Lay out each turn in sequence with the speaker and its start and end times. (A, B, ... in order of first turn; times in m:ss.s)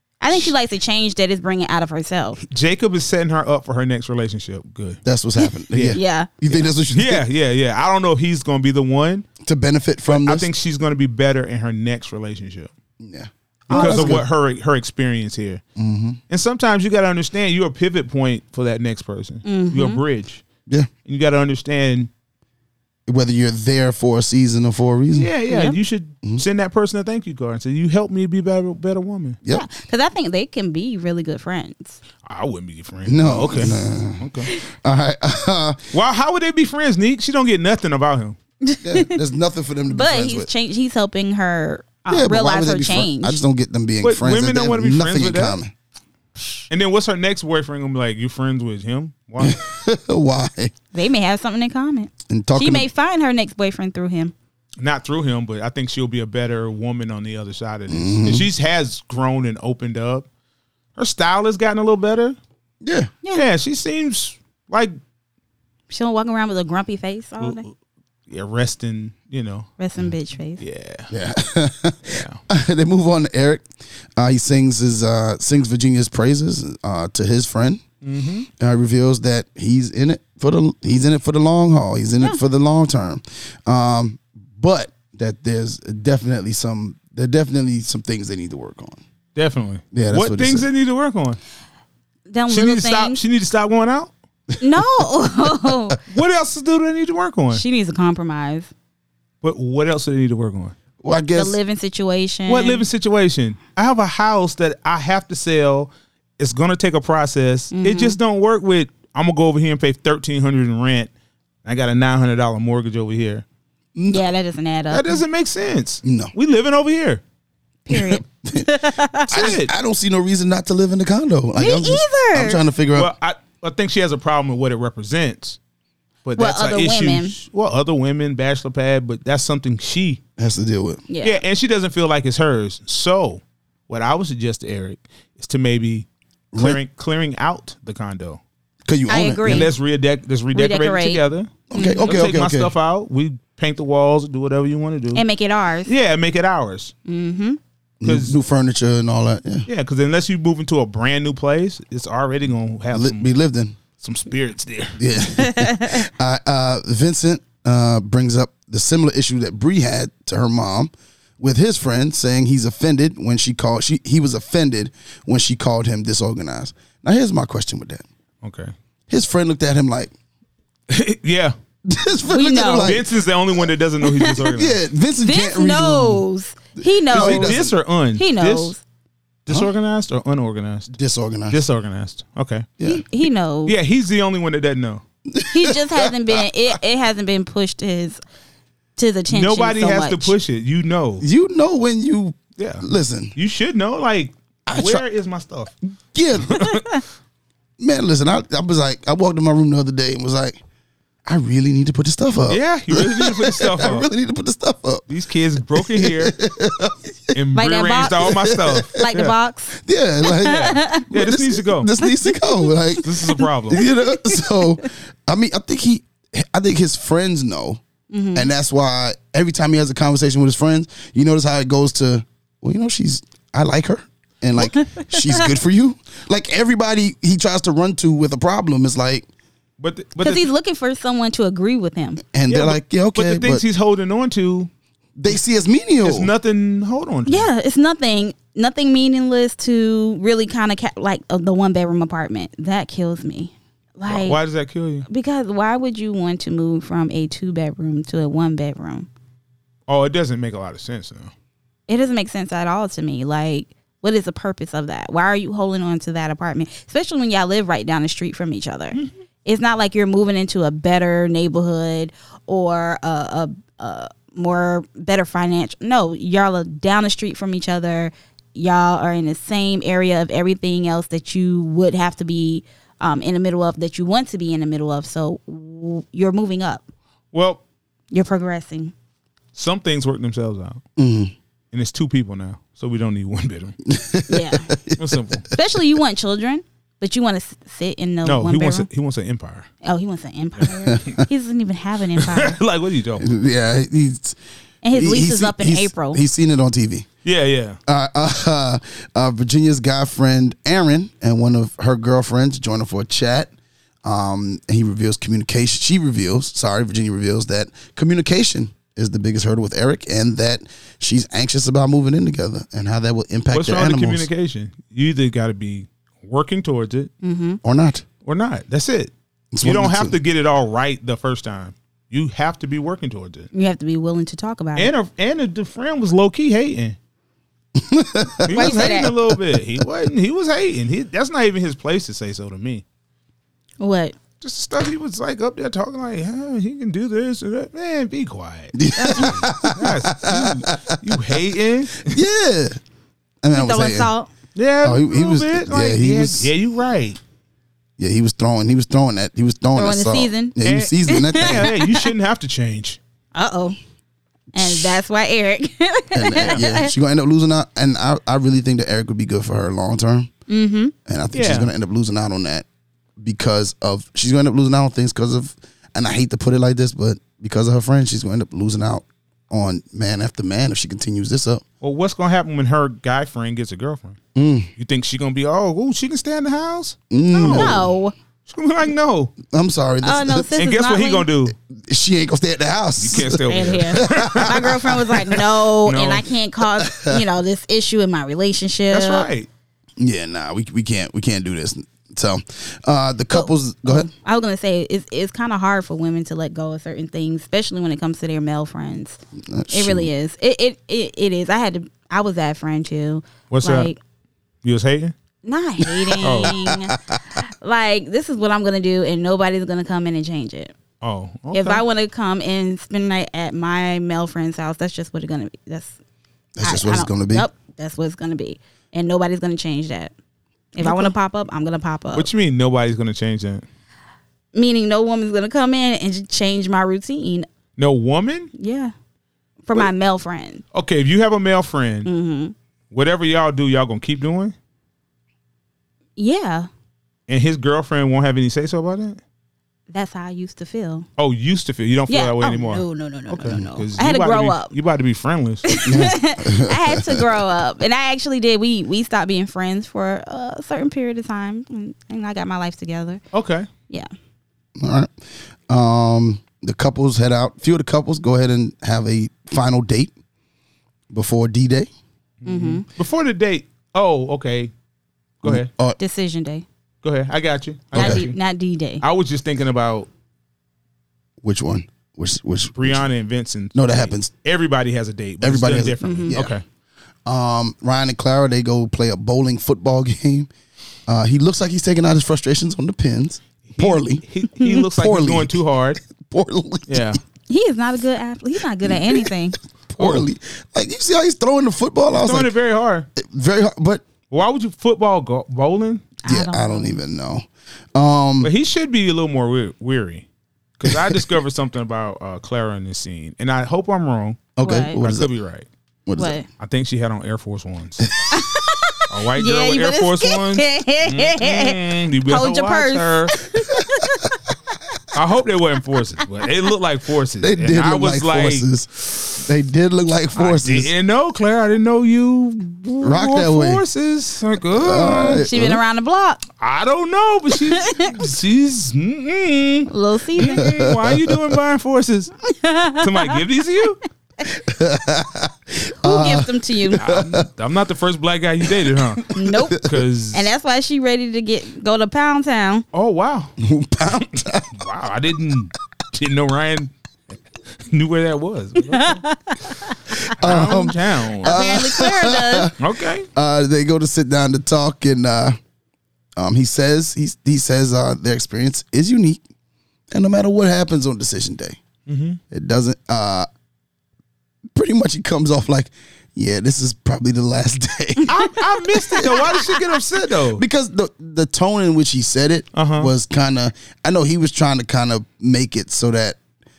0:00.2-0:02.4 A
0:02.4-0:05.0 B
0:05.0-0:07.2 C
0:05.7-0:09.3 B
0:05.9-0:06.3 A
0:09.4-0:10.5 C
0:10.1-0:12.7 B
0:13.0-0:14.2 C
0:13.7-0:15.6 B
0:13.7-0:14.2 A
0:15.8-0:16.2 C
0:16.3-0:20.4 B
0:19.4-0:20.0 A
0:21.0-0:22.1 B
0:23.1-0:25.4 C
0:25.1-0:29.4 B
0:29.5-0:32.0 A
0:32.2-0:34.5 B
0:33.1-0:35.8 C
0:35.9-0:38.4 B
0:38.6-0:39.1 A
0:38.8-0:40.5 C
0:39.9-0:43.4 A
0:42.1-0:45.7 C
0:44.0-0:45.6 B
0:46.7-0:49.6 B
0:49.4-0:50.7 C
0:50.9-0:54.3 A
0:52.3-0:52.8 C
0:54.8-1:00.3 B
0:57.9-0:58.5 C
1:01.0-1:02.4 B
1:02.8-1:03.1 C
1:03.3-1:05.0 B
1:05.9-1:07.6 A
1:07.4-1:07.7 B
1:08.3-1:09.7 B
1:09.8-1:10.6 A
1:10.6-1:11.1 B
1:11.1-1:13.6 C
1:12.1-1:12.4 B
1:14.2-1:17.8 C
1:18.0-1:18.5 B
1:18.6-1:29.0 C
1:29.4-1:31.4 B
1:29.9-1:30.7 C
1:32.3-1:33.2 A
1:32.5-1:34.1 B
1:34.6-1:36.0 A
1:36.1-1:37.6 B
1:37.5-1:38.7 A
1:39.4-1:40.7 B
1:41.0-1:41.6 C
1:41.3-1:42.8 A
1:42.5-1:51.1 B
1:47.7-1:48.2 A
1:51.6-1:53.4 B
1:54.0-1:54.2 C
1:54.1-1:55.1 A
1:54.9-1:57.2 B
1:56.0-1:56.3 C
1:57.9-1:59.5 A
1:57.9-2:03.1 C
1:59.3-1:59.7 B
2:01.6-2:02.6 A
2:02.9-2:05.6 B
2:06.2-2:10.2 B
2:06.4-2:07.3 A
2:10.4-2:11.0 C
2:11.1-2:11.4 A
2:11.2-2:18.4 B
2:16.5-2:16.8 C
2:18.9-2:19.7 C
2:19.1-2:19.7 A
2:19.4-2:21.5 B
2:20.5-2:22.2 A
2:21.7-2:22.7 C
2:22.0-2:25.2 B
2:25.1-2:25.9 A
2:25.8-2:26.9 B
2:27.0-2:27.6 A
2:28.0-2:29.7 C
2:28.0-2:28.4 B
2:29.7-2:33.3 B
2:32.9-2:33.8 C
2:34.0-2:35.0 B
2:35.0-2:48.0 C
2:35.4-2:36.0 A
2:48.4-2:48.7 B
2:49.1-2:50.1 C
2:50.9-2:51.6 B
2:51.9-2:53.1 C
2:52.3-2:53.0 A
2:52.8-2:54.8 B
2:54.0-2:54.5 A
2:54.5-2:56.2 C
2:55.2-2:57.6 A
2:56.8-2:57.7 C
2:57.1-2:58.7 B
2:58.2-2:58.8 A
2:59.5-3:00.9 B
3:00.9-3:01.6 C
3:01.5-3:02.7 B
3:02.8-3:03.8 A
3:03.6-3:05.0 B
3:05.3-3:06.4 C
3:05.5-3:08.2 A
3:09.0-3:10.3 A
3:09.3-3:11.2 B
3:11.2-3:13.3 C
3:12.6-3:12.8 B
3:13.3-3:15.7 B
3:14.7-3:15.0 C
3:16.1-3:16.7 C
3:16.5-3:16.8 B
3:17.8-3:20.6 C
3:21.2-3:25.0 C
3:22.5-3:24.1 B
3:25.1-3:26.3 B
3:25.7-3:27.4 C
3:27.3-3:29.3 B
3:27.5-3:28.3 A
3:28.3-3:29.0 C
3:29.0-3:29.8 A
3:29.8-3:33.1 C
3:30.4-3:31.0 A
3:30.4-3:31.9 B
3:32.0-3:32.7 A
3:33.0-3:33.8 B
3:33.4-3:34.6 A
3:33.7-3:37.8 C
3:38.1-3:38.5 A
3:38.3-3:49.2 C
3:44.8-3:45.5 A
3:49.8-3:50.5 B
3:50.2-3:52.2 A
3:52.3-3:53.6 C
3:52.5-3:54.7 B
3:55.2-3:56.3 C
3:56.0-3:57.5 B
3:57.3-4:04.4 A
4:04.1-4:05.0 B
4:05.1-4:09.1 A
4:09.9-4:11.3 B
4:11.9-4:36.8 A
4:37.3-4:37.6 B
4:38.1-4:38.9 A
4:39.5-4:40.8 B
4:41.0-4:41.3 C
4:41.7-4:43.7 B
4:43.8-4:45.3 C
4:44.3-4:44.7 A
4:45.0-4:45.4 B
4:45.5-4:48.9 A
4:48.2-4:49.7 B
4:49.8-4:52.6 A
4:50.8-4:51.2 C
4:52.1-4:53.3 B
4:53.2-4:54.4 C
4:54.8-4:56.2 A
4:54.9-4:57.1 C
4:57.2-4:57.8 B
4:57.8-5:03.5 C
5:04.0-5:14.3 C
5:13.5-5:17.1 B
5:17.2-5:17.6 A
5:17.6-5:18.0 C
5:18.2-5:23.5 B
5:19.5-5:20.2 C
5:23.5-5:24.9 A
5:24.7-5:27.0 B
5:27.8-5:28.8 C
5:28.5-5:32.8 B
5:28.5-5:29.1 A
5:33.8-5:34.2 A
5:34.4-5:42.2 B
5:38.7-5:41.0 C
5:39.0-5:39.4 A
5:42.0-5:42.8 C
5:43.4-5:44.1 C
5:43.5-5:44.3 A
5:44.5-5:47.2 B
5:44.8-5:46.5 C
5:48.0-5:51.7 C
5:49.8-5:50.6 A
5:50.6-5:53.0 B
5:51.1-5:52.1 A
5:53.3-5:53.8 A
5:54.5-5:56.9 A
5:54.6-5:55.0 C
5:56.1-6:00.3 C
5:56.4-5:56.6 B
6:00.5-6:00.9 A
6:01.0-6:02.6 C
6:01.3-6:01.7 B
6:03.2-6:11.6 C
6:11.8-6:14.2 B
6:14.3-6:14.7 C
6:14.8-6:17.8 B
6:17.1-6:17.9 C
6:17.3-6:18.1 A
6:18.5-6:19.3 B
6:19.5-6:20.5 C
6:20.0-6:21.3 A
6:20.6-6:21.5 B
6:21.7-6:24.9 C
6:23.0-6:24.8 B
6:23.4-6:29.3 A
6:25.8-6:26.3 B
6:26.9-6:27.2 C
6:28.9-6:29.5 B
6:30.0-6:34.1 C
6:33.3-6:39.2 A
6:39.4-6:40.1 C
6:39.7-6:44.0 A
6:43.5-6:43.9 B
6:44.6-6:45.1 B
6:45.4-6:50.7 A
6:46.2-6:46.6 B
6:46.2-6:47.2 C
6:51.0-6:51.8 B
6:51.5-6:55.9 A
6:56.6-6:57.4 C
6:56.6-7:00.1 A
7:00.7-7:02.3 A
7:00.8-7:01.1 B
7:02.1-7:03.6 B
7:04.5-7:07.5 A
7:07.8-7:08.5 B
7:08.6-7:08.9 A
7:09.6-7:10.6 A
7:10.7-7:12.1 B
7:12.0-7:12.5 A
7:12.9-7:14.5 B
7:16.2-7:16.7 A
7:17.3-7:19.2 B
7:19.9-7:21.1 A
7:21.2-7:25.7 B
7:22.1-7:24.7 A
7:25.7-7:33.2 A
7:25.8-7:27.2 C
7:33.3-7:33.7 B
7:34.8-7:35.1 C
7:35.7-7:40.1 C
7:41.1-7:41.9 C
7:42.4-7:44.7 B
7:42.4-7:42.8 A
7:45.4-7:45.7 B
7:45.4-7:46.0 C
7:46.0-7:46.6 A
7:47.0-7:48.4 B
7:47.9-7:49.0 A
7:47.9-7:48.2 C
7:49.0-7:50.1 B
7:51.4-7:53.1 C
7:52.7-7:56.6 B
7:53.7-7:54.3 C
7:55.4-7:56.5 C
7:56.0-7:56.3 A
7:57.2-8:00.5 C
8:01.1-8:07.1 C
8:03.7-8:06.0 B
8:06.9-8:07.2 B
8:07.5-8:09.6 A
8:08.8-8:09.3 C
8:09.9-8:12.5 C
8:10.0-8:10.2 B
8:12.1-8:13.1 B
8:13.2-8:14.0 C
8:14.3-8:16.1 B
8:16.2-8:17.0 A
8:16.2-8:18.5 C
8:18.4-8:20.3 B
8:20.8-8:25.7 B
8:20.8-8:21.1 C
8:24.6-8:25.3 C
8:24.6-8:25.0 A
8:26.1-8:26.4 C
8:26.2-8:26.5 A
8:26.6-8:28.0 B
8:28.3-8:34.3 A
8:29.1-8:33.3 B
8:33.7-8:34.2 C
8:35.1-8:39.3 B
8:37.4-8:40.9 C
8:40.4-8:45.4 B
8:43.0-8:43.8 C
8:44.7-8:45.8 C
8:45.4-8:46.4 A
8:46.6-8:52.3 B
8:47.7-8:48.2 A
8:49.9-8:50.9 A
8:50.4-8:51.4 C
8:52.5-8:53.4 A
8:53.0-8:54.0 B
8:54.4-8:57.5 C
8:56.0-8:57.0 A
8:56.9-9:00.5 B
8:59.3-9:02.8 A
9:02.9-9:03.5 B
9:03.6-9:04.8 C
9:04.7-9:06.9 B
9:07.7-9:09.2 B
9:08.9-9:09.9 A
9:10.2-9:12.7 C
9:10.4-9:11.6 B
9:11.4-9:12.7 A
9:12.8-9:13.3 B
9:13.3-9:15.6 C
9:16.4-9:19.4 C
9:20.1-9:21.8 C
9:22.1-9:22.4 B
9:22.5-9:23.5 C
9:24.7-9:28.3 C
9:28.3-9:30.6 B
9:29.2-9:29.6 A
9:30.5-9:36.4 C
9:32.7-9:33.1 B